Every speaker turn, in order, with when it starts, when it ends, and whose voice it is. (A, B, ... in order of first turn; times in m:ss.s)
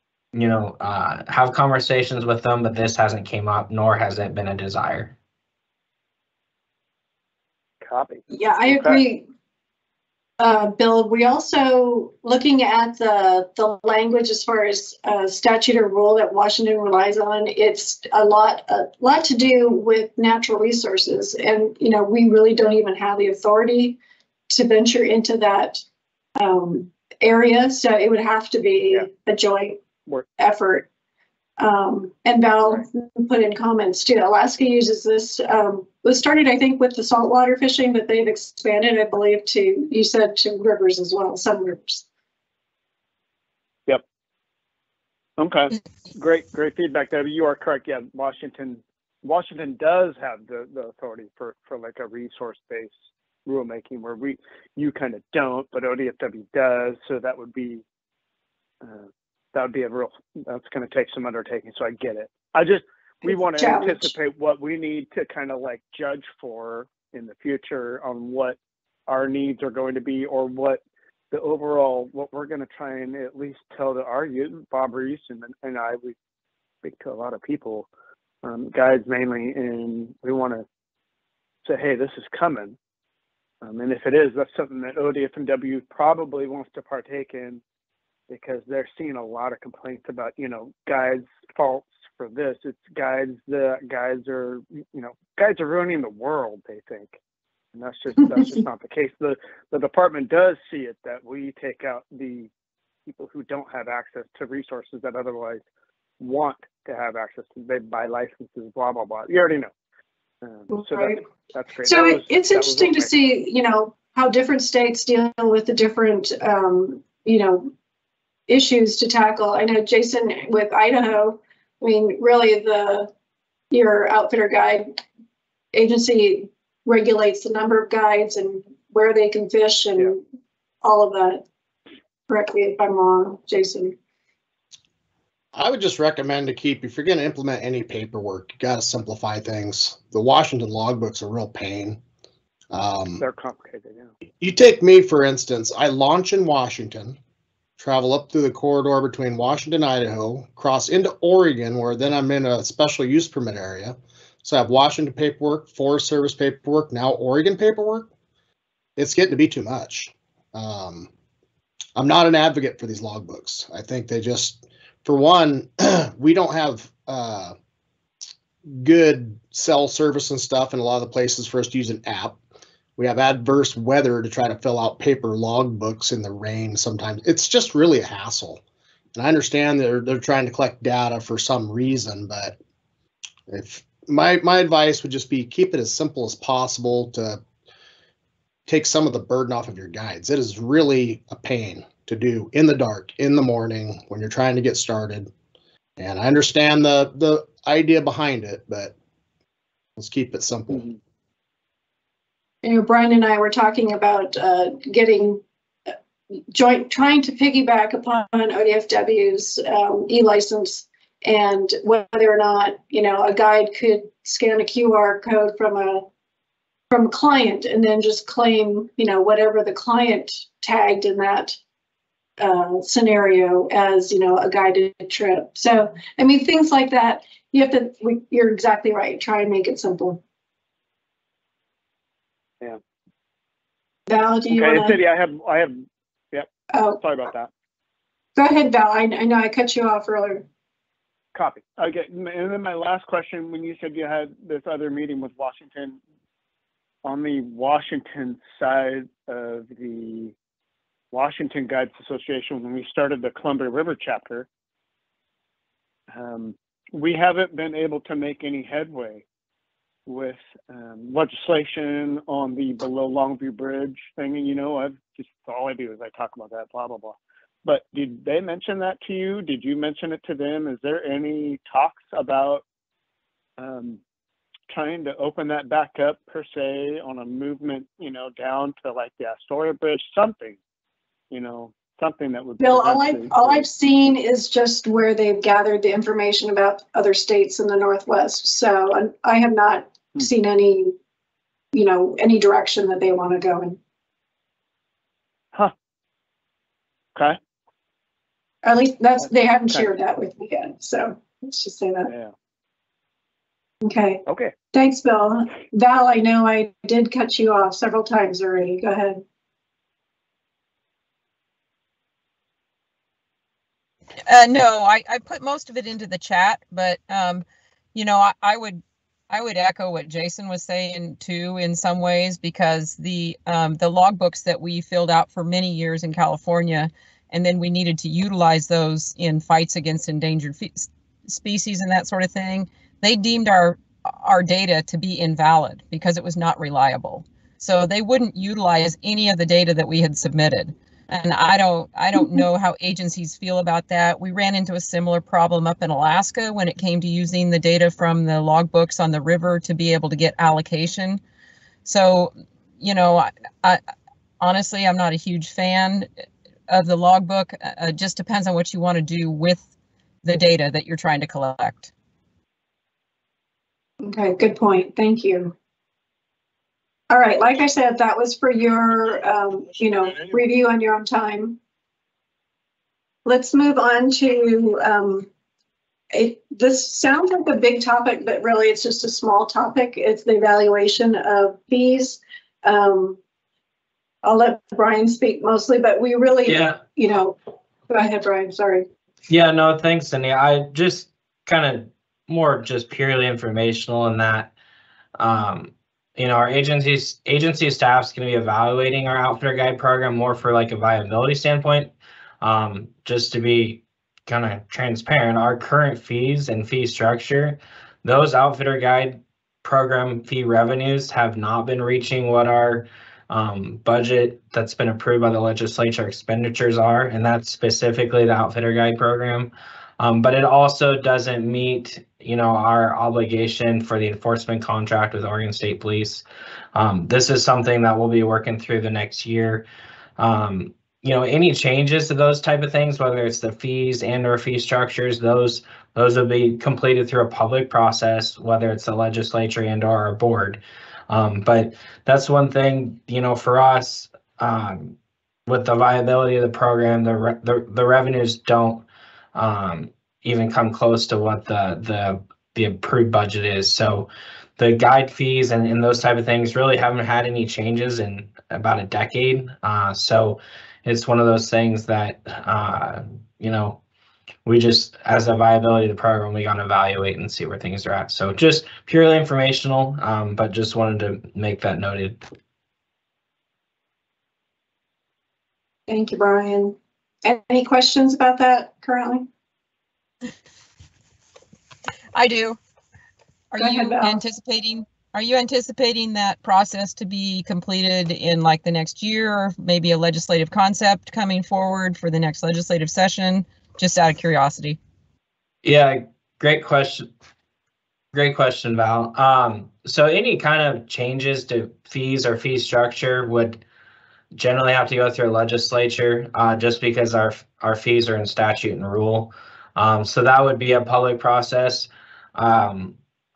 0:00.3-0:05.1 A
0:07.8-0:09.0 B
0:08.3-0:09.2 C
0:10.4-0:24.0 C
0:24.5-0:25.8 C
0:26.4-0:29.8 C
0:30.4-0:30.9 C
0:31.6-0:42.0 C
0:45.4-0:52.9 B
0:53.4-0:57.8 B
0:58.8-1:16.2 B
1:03.2-1:04.1 C
1:16.8-1:17.9 B
1:18.4-1:20.6 B
1:21.6-1:22.8 B
1:23.6-1:27.6 B
1:28.3-1:37.2 B
1:37.7-1:42.5 B
1:43.1-1:45.6 B
1:46.2-1:49.7 B
1:50.4-1:53.1 B
1:50.7-1:51.2 C
1:51.8-1:57.7 C
1:58.5-2:03.1 C
2:03.7-2:04.9 C
2:05.7-2:10.2 C
2:10.8-2:11.4 C
2:12.3-2:13.9 C
2:15.5-2:22.0 D
2:22.7-2:23.2 D
2:23.2-2:24.1 B
2:24.4-2:27.2 D
2:27.8-2:38.1 D
2:39.0-2:41.1 D
2:42.0-2:47.5 D
2:48.7-2:52.4 D
2:53.0-2:58.6 D
2:59.1-3:02.6 D
3:03.5-3:07.4 D
3:08.7-3:15.3 D
3:16.0-3:18.9 D
3:20.0-3:20.8 D
3:22.6-3:25.4 C
3:26.5-3:36.0 C
3:36.9-3:41.6 C
3:42.4-3:50.2 C
3:54.1-3:55.0 C
3:54.5-3:57.5 B
3:56.7-3:57.0 C
3:58.4-4:00.4 C
4:01.3-4:06.0 B
4:07.0-4:10.3 B
4:11.1-4:14.5 B
4:16.1-4:19.2 B
4:20.1-4:32.6 B
4:33.6-4:34.0 B
4:34.7-4:40.6 B
4:41.3-4:43.7 B
4:42.6-4:50.9 C
4:51.7-4:53.8 C
4:58.6-5:02.1 C
5:02.0-5:02.3 B
5:03.8-5:04.2 C
5:04.2-5:04.5 B
5:04.7-5:09.2 C
5:14.3-5:17.4 E
5:17.9-5:51.2 E
5:51.8-5:53.8 E
5:54.4-5:56.1 E
5:56.7-5:59.6 E
6:00.2-6:01.9 E
6:04.0-6:05.5 C
6:07.1-6:11.6 C
6:13.2-6:15.3 C
6:16.1-6:23.2 C
6:24.2-6:27.4 C
6:26.4-6:26.8 A
6:27.9-6:28.8 C
6:29.3-6:34.5 A
6:35.2-7:06.2 A
7:06.7-7:09.6 A
7:10.2-7:25.0 A
7:25.5-7:43.8 A
7:44.4-7:52.2 A
7:55.9-7:59.3 C
8:02.1-8:02.6 E
8:03.5-8:14.8 E
8:03.6-8:04.2 C
8:15.6-8:17.1 A
8:18.1-8:23.6 A
8:24.3-8:33.0 A